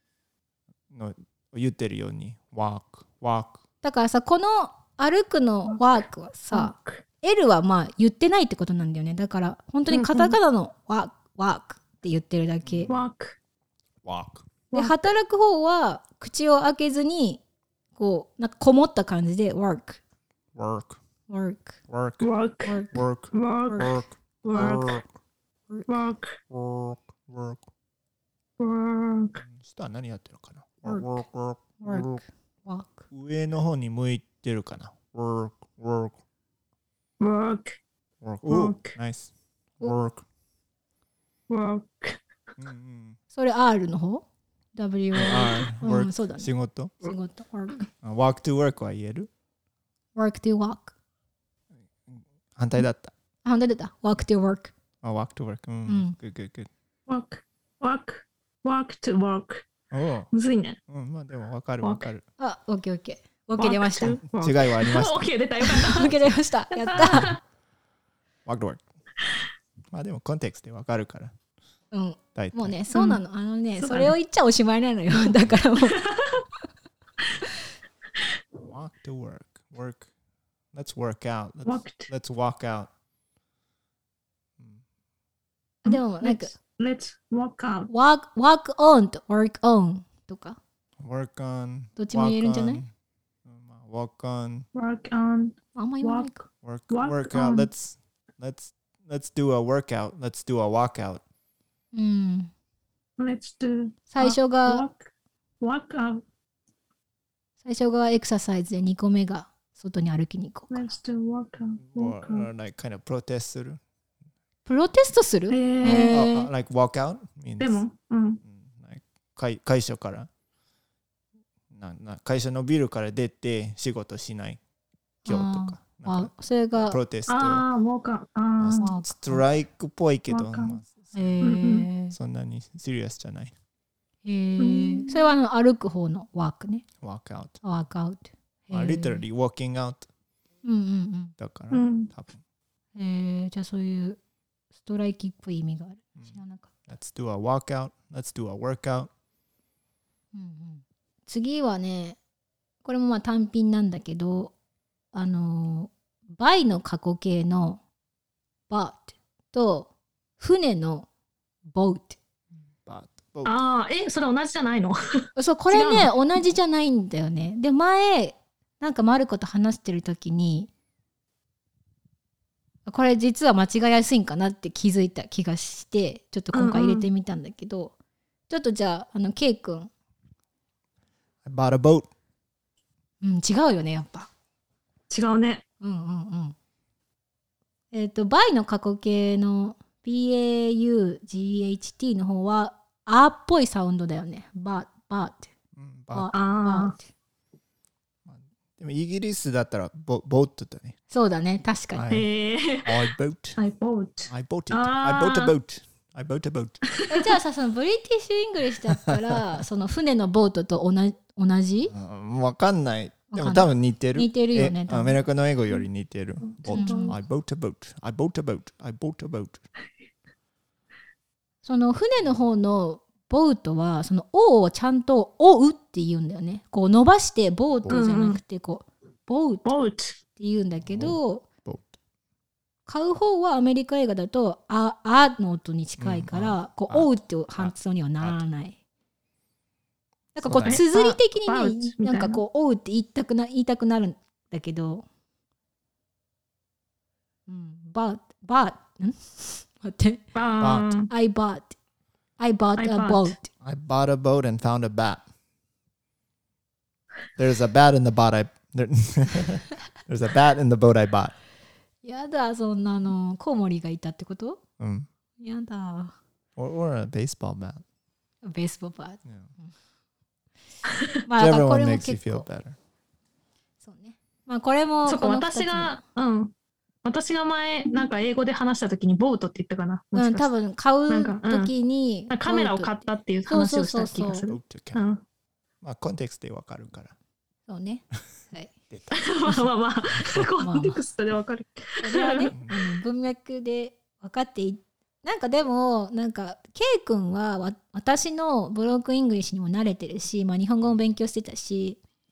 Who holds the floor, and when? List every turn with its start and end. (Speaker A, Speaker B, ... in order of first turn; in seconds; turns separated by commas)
Speaker A: 0.9-3.6, Speaker B: 3.8-12.9, Speaker C: 5.7-6.0, Speaker C: 6.5-7.0, Speaker C: 9.9-10.4, Speaker A: 12.6-13.0, Speaker C: 12.9-13.4, Speaker A: 14.0-14.5, Speaker C: 14.7-15.0, Speaker B: 14.7-17.4, Speaker B: 18.0-20.0, Speaker A: 20.6-21.0, Speaker B: 21.3-21.8, Speaker A: 21.9-22.3, Speaker C: 22.2-25.0, Speaker B: 22.7-23.0, Speaker A: 22.9-23.3, Speaker B: 23.7-24.0, Speaker A: 24.5-25.0, Speaker B: 25.7-25.9, Speaker C: 25.9-26.4, Speaker A: 26.5-27.7, Speaker C: 28.6-29.4, Speaker A: 29.4-32.2, Speaker B: 30.9-31.2, Speaker B: 31.8-33.1, Speaker A: 33.1-36.2, Speaker C: 37.2-37.8, Speaker A: 38.2-40.2, Speaker C: 38.5-39.0, Speaker C: 41.5-42.2, Speaker A: 42.6-43.2, Speaker B: 43.3-47.9, Speaker A: 45.1-47.1, Speaker A: 48.0-49.3, Speaker B: 50.2-50.9, Speaker A: 52.1-53.1, Speaker B: 53.5-54.7, Speaker A: 55.0-56.7, Speaker B: 55.9-56.2, Speaker C: 57.1-59.7, Speaker A: 59.9-60.3, Speaker C: 60.3-60.8, Speaker A: 60.9-62.2, Speaker C: 61.8-62.1, Speaker B: 62.4-64.2, Speaker C: 63.6-66.1, Speaker A: 64.4-65.3, Speaker B: 65.6-67.4, Speaker A: 65.8-66.4, Speaker C: 66.7-67.4, Speaker A: 68.5-68.8, Speaker A: 69.9-71.3, Speaker B: 71.9-76.0, Speaker A: 72.3-72.8, Speaker C: 72.9-73.2, Speaker C: 73.8-74.1, Speaker C: 75.1-76.4, Speaker A: 78.7-80.1, Speaker A: 80.7-82.9, Speaker C: 81.7-82.1, Speaker B: 85.8-86.5, Speaker C: 85.9-87.9, Speaker B: 87.9-90.6, Speaker A: 91.0-92.9, Speaker B: 92.0-92.8, Speaker A: 93.5-94.7, Speaker C: 94.7-97.7, Speaker B: 95.8-96.4, Speaker A: 96.6-101.2, Speaker B: 101.9-102.5, Speaker C: 103.2-105.1, Speaker B: 104.1-104.8, Speaker C: 105.6-106.2, Speaker B: 107.6-110.9, Speaker C: 110.7-112.5, Speaker A: 111.8-113.8, Speaker B: 114.7-116.5, Speaker C: 115.5-116.2, Speaker A: 115.8-117.8, Speaker C: 117.6-118.4, Speaker A: 118.5-120.3, Speaker A: 121.7-124.6, Speaker B: 125.2-127.0, Speaker A: 125.3-127.6, Speaker C: 127.3-128.9, Speaker A: 128.6-131.4, Speaker B: 128.8-129.4, Speaker C: 130.3-130.8, Speaker B: 131.1-132.2, Speaker C: 131.4-131.9, Speaker A: 132.1-133.5, Speaker B: 134.2-136.8, Speaker C: 134.6-135.3, Speaker A: 137.0-137.6, Speaker B: 137.6-139.2, Speaker A: 138.7-140.1, Speaker B: 140.6-141.3, Speaker A: 141.4-142.4, Speaker C: 141.7-142.1, Speaker B: 143.0-144.2, Speaker B: 144.8-146.7, Speaker A: 146.9-149.1, Speaker B: 150.3-152.2, Speaker B: 152.8-154.5, Speaker B: 155.1-157.8, Speaker B: 158.7-161.1, Speaker B: 161.7-162.2, Speaker A: 162.8-163.6, Speaker C: 163.4-166.1, Speaker B: 165.4-170.7, Speaker B: 172.9-177.9, Speaker C: 176.5-177.1, Speaker B: 178.5-179.9, Speaker A: 181.4-182.1, Speaker B: 183.2-184.3, Speaker C: 185.1-185.6, Speaker B: 185.8-186.6, Speaker B: 187.9-195.5, Speaker A: 195.8-196.3, Speaker B: 196.1-197.1, Speaker C: 196.3-196.9, Speaker A: 198.3-201.0, Speaker B: 201.1-202.1, Speaker A: 201.9-202.3, Speaker C: 202.1-205.6, Speaker A: 202.8-203.6, Speaker A: 204.3-206.8, Speaker C: 206.9-207.2, Speaker B: 207.1-211.9, Speaker A: 209.1-209.4, Speaker A: 211.9-219.6, Speaker B: 213.3-215.2, Speaker C: 216.5-217.2, Speaker B: 216.7-217.2, Speaker B: 221.6-229.7, Speaker C: 227.9-228.4, Speaker C: 229.7-230.2, Speaker B: 230.4-231.5, Speaker A: 230.8-232.0, Speaker B: 232.9-238.8, Speaker A: 236.0-238.4, Speaker B: 240.3-245.1, Speaker A: 240.4-240.8, Speaker C: 240.6-242.4, Speaker B: 247.5-250.2, Speaker C: 250.3-251.1, Speaker A: 250.6-251.0, Speaker B: 251.1-251.8, Speaker B: 252.4-253.5, Speaker C: 252.8-253.4, Speaker A: 253.6-255.2, Speaker A: 257.4-261.4, Speaker B: 262.0-264.6, Speaker A: 264.8-265.1, Speaker B: 265.4-266.1, Speaker A: 266.6-267.8, Speaker B: 268.4-269.7, Speaker B: 271.3-272.5, Speaker A: 271.4-272.8, Speaker B: 273.8-276.0, Speaker C: 275.1-276.5, Speaker C: 277.1-280.5, Speaker B: 280.1-284.5, Speaker C: 281.1-281.7, Speaker C: 282.3-285.2, Speaker A: 284.4-285.0, Speaker A: 285.8-287.1, Speaker B: 287.7-288.7, Speaker A: 288.9-289.7, Speaker C: 289.1-292.5, Speaker A: 290.2-290.4, Speaker B: 290.6-291.0, Speaker B: 292.0-302.0, Speaker A: 292.5-292.8